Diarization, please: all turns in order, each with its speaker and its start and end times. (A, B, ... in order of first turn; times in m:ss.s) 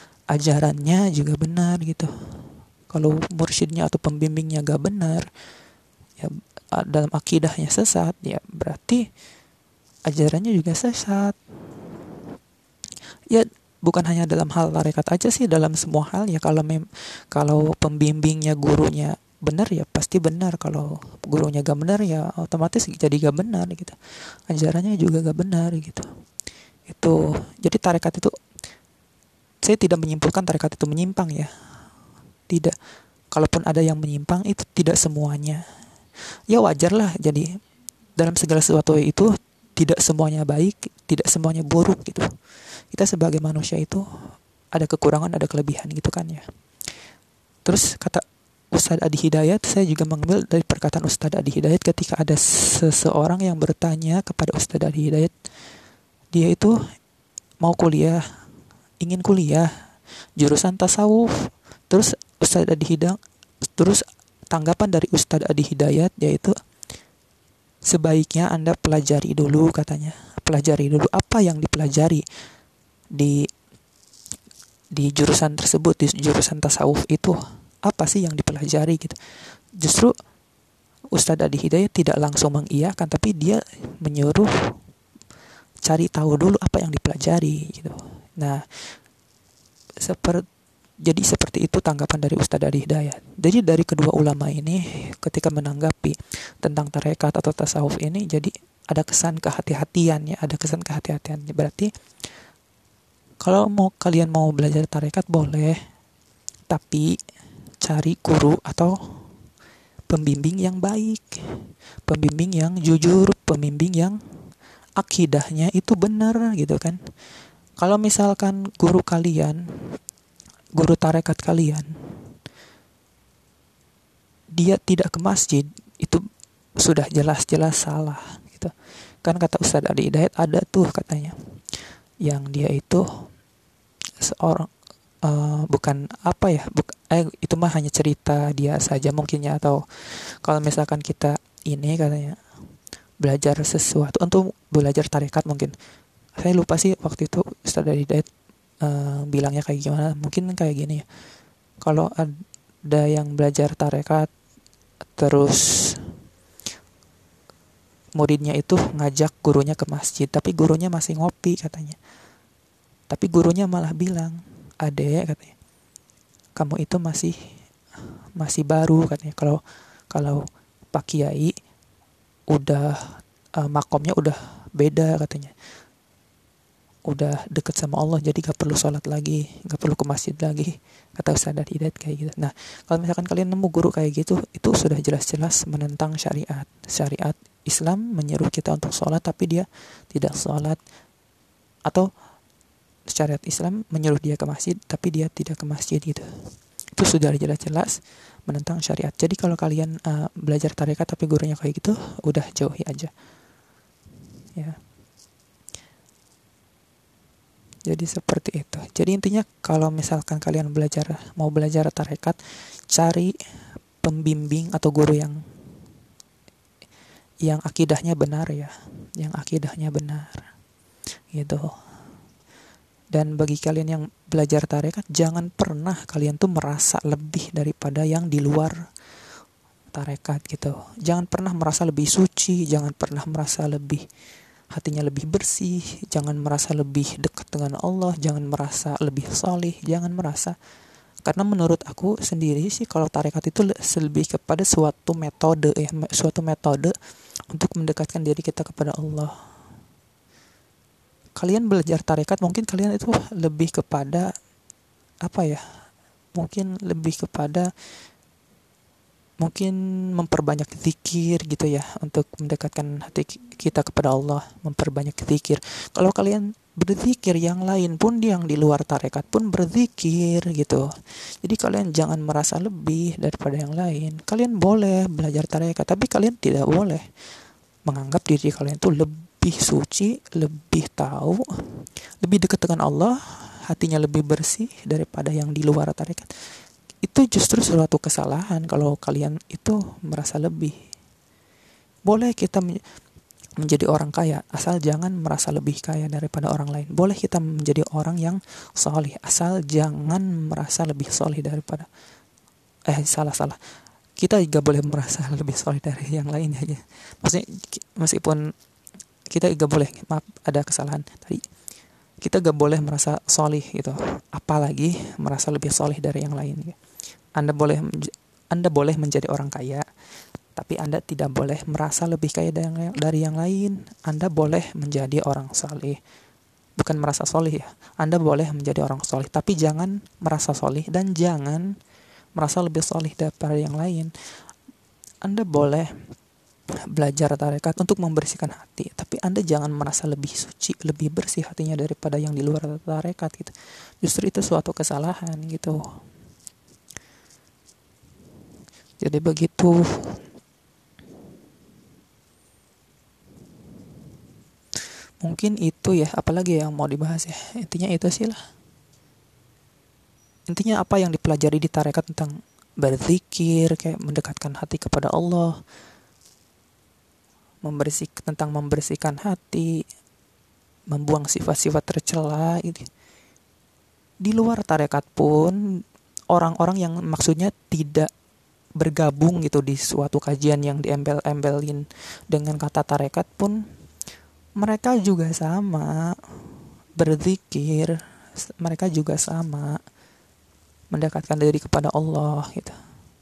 0:00.3-0:02.1 A
0:02.9-0:05.2 A
0:06.2-0:09.0 A
0:10.1-0:11.4 A
0:13.3-0:24.0 A
0:24.5-0:26.0 A
0:26.9-0:28.3 A
0:29.6-0:31.5 A
0:32.5-0:32.7 A
0:33.3-0:35.6 A
0:36.5-0:37.4 A
0:38.2-0:42.3 A
0:42.9-0:44.0 A
0:44.7-0:46.4 A
0:47.6-0:55.3 A
0:56.3-0:56.7 A
0:57.6-0:58.2 A
0:59.0-0:59.7 A
1:00.4-1:03.2 A
1:03.8-1:06.5 A
1:07.9-1:12.2 A
1:14.9-1:19.2 A
1:19.8-1:20.1 A
1:21.1-1:24.5 A
1:25.8-1:28.6 A
1:30.0-1:30.4 A
1:31.0-1:41.9 A
1:43.4-1:45.8 A
1:46.7-1:47.2 A
1:47.8-1:49.0 A
1:50.1-1:51.4 A
1:52.1-1:54.2 A
1:55.0-1:57.0 A
1:57.8-1:59.6 A
2:00.8-2:01.9 A
2:04.6-2:06.2 A
2:06.8-2:08.7 A
2:09.2-2:11.3 A
2:12.2-2:13.0 A
2:14.2-2:14.7 A
2:15.2-2:22.4 A
2:23.2-2:25.7 A
2:26.4-2:28.3 A
2:28.8-2:31.0 A
2:31.8-2:32.3 A
2:32.9-2:34.3 A
2:35.2-2:36.0 A
2:38.2-2:42.0 A
2:43.1-2:45.5 A
2:46.6-2:47.3 A
2:48.4-2:49.6 A
2:50.1-2:51.5 A
2:52.5-2:55.5 A
2:57.1-3:10.8 A
3:13.1-3:16.3 A
3:17.0-3:23.1 A
3:27.9-3:32.4 A
3:32.9-3:33.3 A
3:34.0-3:35.4 A
3:37.4-3:40.4 A
3:41.3-3:41.7 A
3:43.1-3:48.7 A
3:49.9-3:54.0 A
3:54.7-4:00.6 A
4:01.2-4:06.9 A
4:07.5-4:09.3 A
4:11.4-4:14.3 A
4:15.2-4:15.6 A
4:16.3-4:17.7 A
4:19.4-4:30.8 A
4:31.4-4:37.0 A
4:37.9-4:41.4 A
4:42.2-4:46.3 A
4:47.0-4:50.7 A
4:52.1-4:52.6 A
4:53.6-5:01.9 A
5:02.9-5:03.6 A
5:04.2-5:08.4 A
5:09.3-5:11.4 A
5:12.2-5:16.8 A
5:17.4-5:19.8 A
5:20.6-5:26.0 A
5:26.8-5:31.7 A
5:32.4-5:34.1 A
5:35.2-5:35.9 A
5:36.9-5:45.8 A
5:49.0-5:50.2 A
5:55.2-5:58.3 A
6:00.5-6:05.5 A
6:07.6-6:09.7 A
6:10.9-6:12.9 A
6:14.2-6:15.6 A
6:16.3-6:18.1 A
6:18.8-6:23.6 A
6:24.6-6:26.2 A
6:27.0-6:28.0 A
6:28.5-6:29.8 A
6:30.9-6:32.7 A